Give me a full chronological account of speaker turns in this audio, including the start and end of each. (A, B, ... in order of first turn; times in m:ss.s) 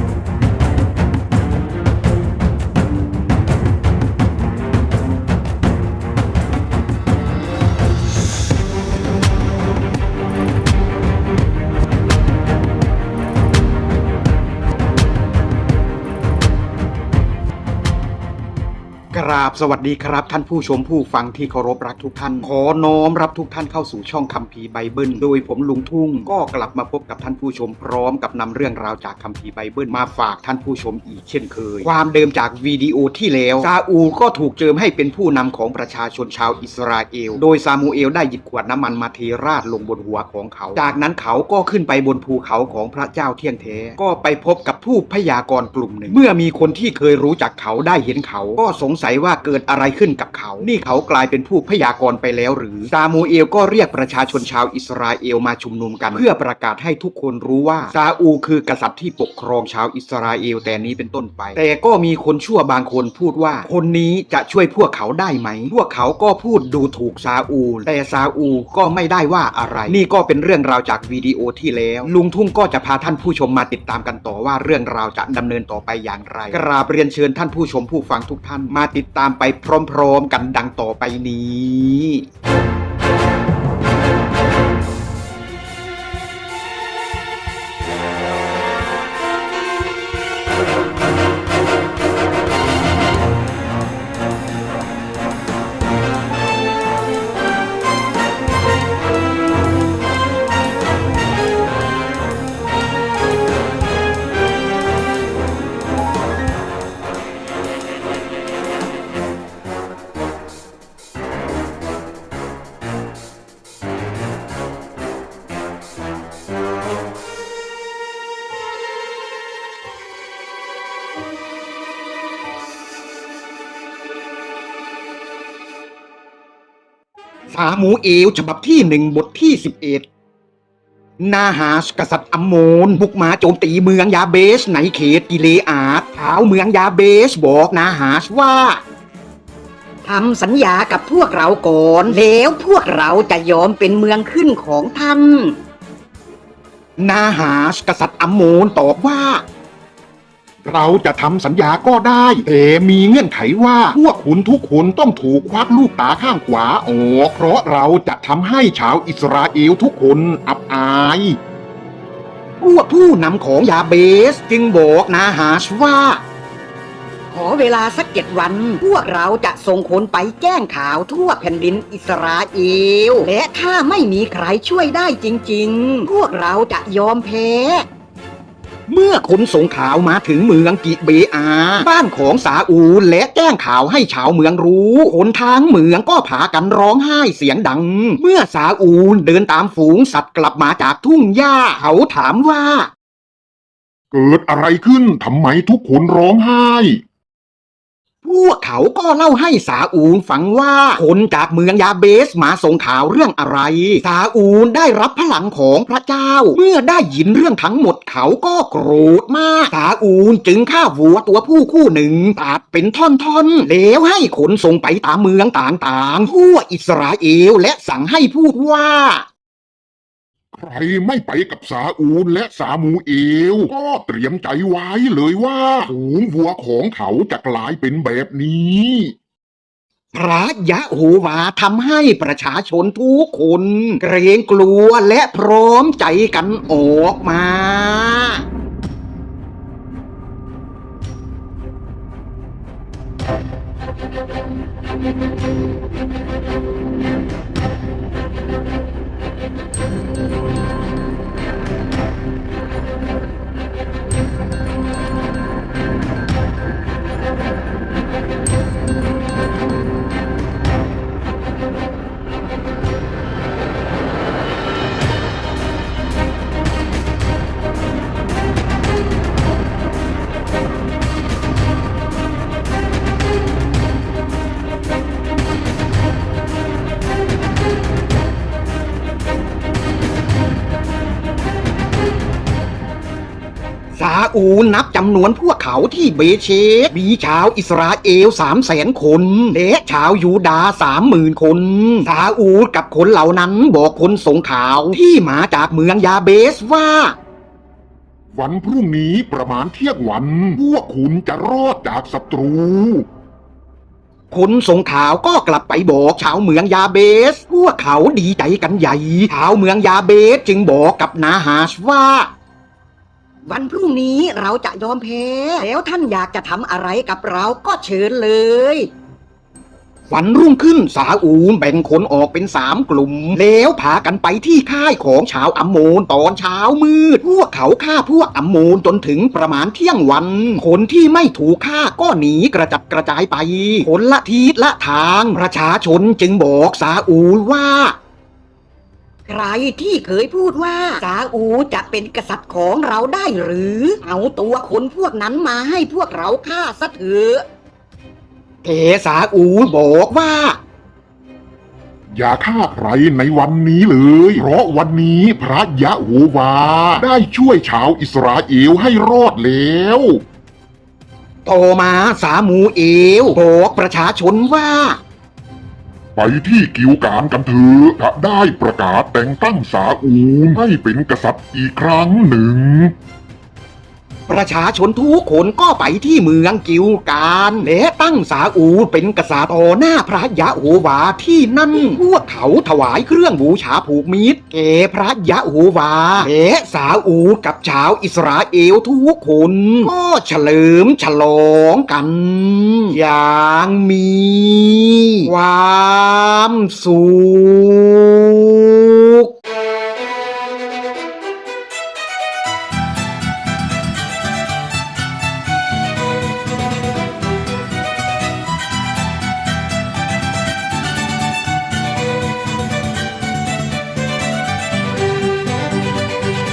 0:19.1-1:22.3 A
2:07.5-2:10.1 A
2:11.2-2:18.8 A
2:20.0-2:25.6 B
2:27.0-2:29.4 A
2:30.6-2:41.4 A
2:42.6-2:46.2 A
2:47.3-2:57.9 B
2:58.9-3:12.9 A
3:14.1-3:17.0 C
3:18.2-3:39.3 A
3:40.5-3:49.1 C
3:50.1-3:58.5 A
4:44.0-4:57.2 A
4:58.4-5:03.1 C
5:04.3-5:12.3 A
5:13.5-5:18.9 B
5:20.1-5:38.0 A
5:39.3-5:47.4 B
5:48.6-5:49.5 A
5:49.4-5:50.6 B
5:52.1-6:00.2 C
6:01.5-6:05.0 A
6:06.2-6:13.0 C
6:14.3-6:39.3 A